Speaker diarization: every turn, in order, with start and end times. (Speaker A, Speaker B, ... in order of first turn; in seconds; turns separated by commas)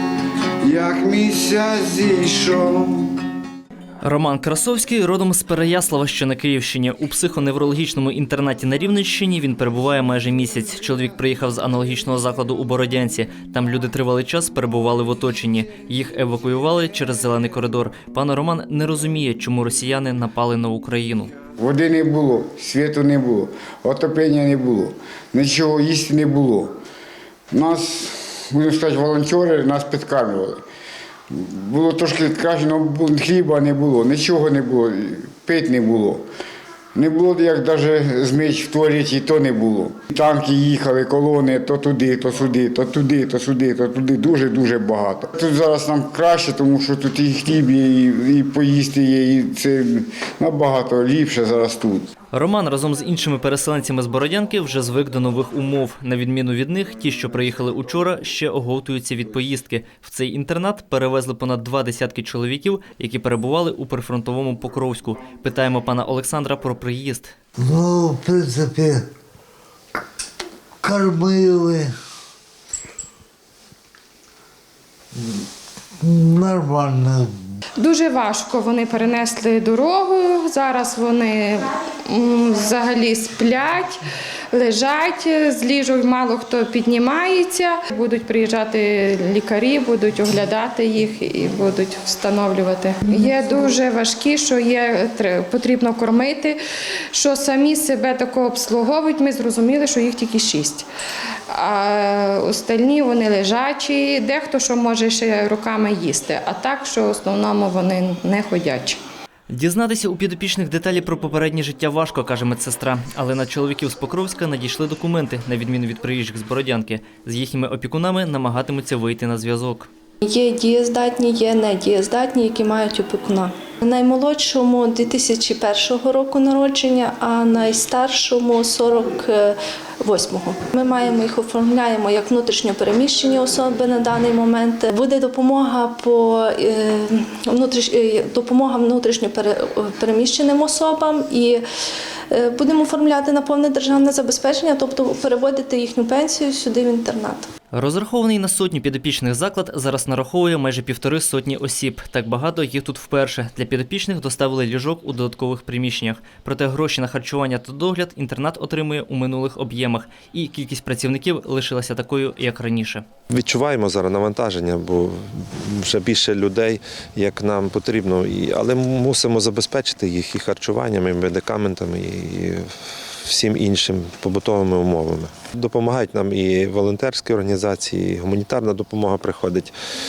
Speaker A: 0.6-3.1, Speaker B: 4.0-21.3, Speaker A: 21.6-26.7, Speaker A: 27.5-30.6, Speaker A: 31.3-36.2, Speaker A: 36.9-52.1, Speaker B: 52.3-67.3, Speaker C: 67.6-69.1, Speaker C: 70.8-71.9, Speaker C: 76.0-77.3, Speaker D: 77.8-84.0, Speaker D: 84.5-96.6, Speaker D: 97.1-100.8, Speaker D: 101.5-109.0, Speaker B: 109.5-119.9, Speaker E: 120.2-141.6, Speaker E: 142.3-147.5, Speaker B: 147.7-163.0, Speaker F: 163.3-172.7, Speaker F: 173.2-179.7